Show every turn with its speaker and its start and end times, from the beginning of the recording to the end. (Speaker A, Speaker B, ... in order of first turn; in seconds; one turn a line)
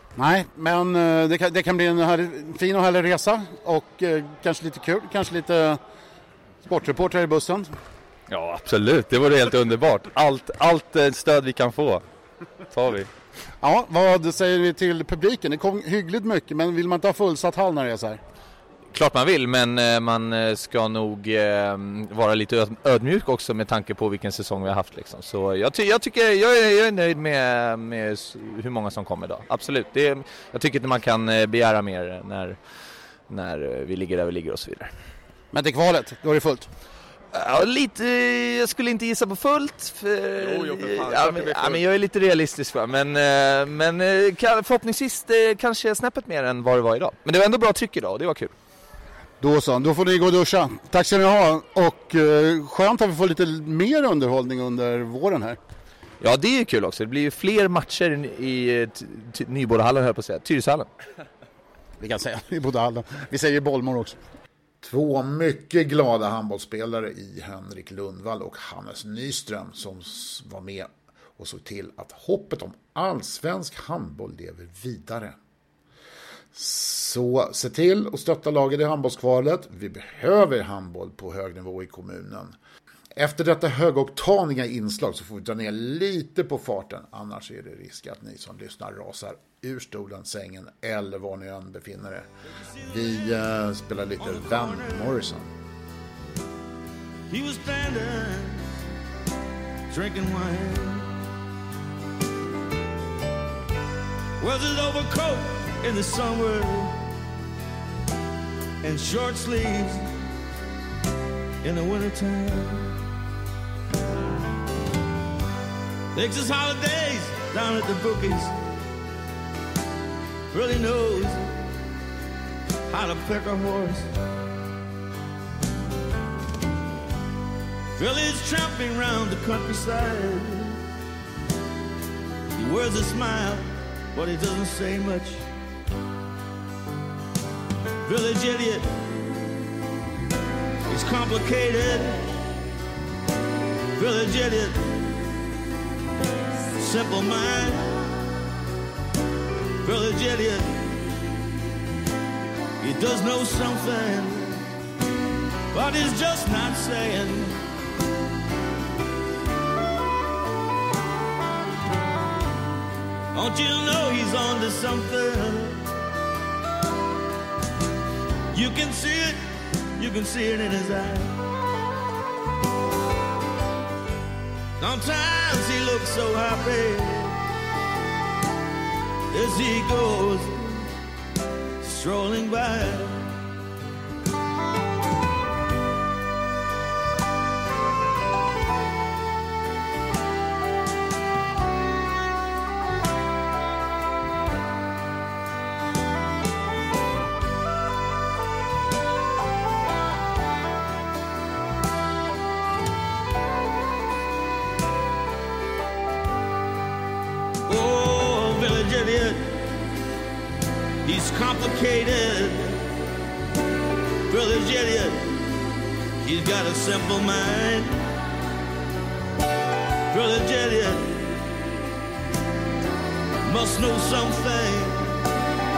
Speaker A: 0.2-5.8
Speaker A: 6.6-7.7
Speaker B: 8.3-12.0
Speaker B: 12.7-13.1
Speaker A: 13.6-18.2
Speaker C: 18.9-32.7
Speaker C: 33.3-34.9
Speaker A: 35.5-36.7
Speaker C: 37.3-48.5
Speaker B: 40.4-41.8
Speaker A: 49.4-55.6
Speaker C: 56.2-60.9
Speaker A: 62.0-64.2
Speaker D: 64.8-75.4
Speaker D: 76.5-82.6
Speaker D: 83.2-92.3
Speaker E: 92.5-93.3
Speaker D: 92.8-95.5
Speaker E: 94.2-95.2
Speaker E: 97.3-98.7
Speaker E: 99.9-101.1
Speaker E: 104.4-107.0
Speaker E: 108.8-110.1
Speaker E: 111.6-112.9
Speaker E: 116.1-118.6
Speaker E: 120.5-121.6
Speaker E: 122.9-124.1
Speaker E: 128.0-130.8
Speaker E: 132.6-135.4
Speaker E: 138.1-138.9
Speaker E: 140.9-142.3
Speaker E: 144.0-145.0
Speaker E: 146.8-147.9
Speaker E: 149.8-150.9
Speaker E: 152.8-154.7
Speaker E: 155.7-157.6
Speaker E: 163.3-165.8
Speaker E: 168.5-169.4
Speaker E: 170.0-171.4
Speaker E: 174.8-177.4
Speaker E: 179.3-180.9
Speaker E: 181.8-183.2
Speaker E: 207.7-209.6
Speaker E: 211.1-212.8
Speaker E: 214.3-215.3
Speaker E: 216.2-218.1
Speaker E: 220.1-221.2
Speaker E: 223.4-225.2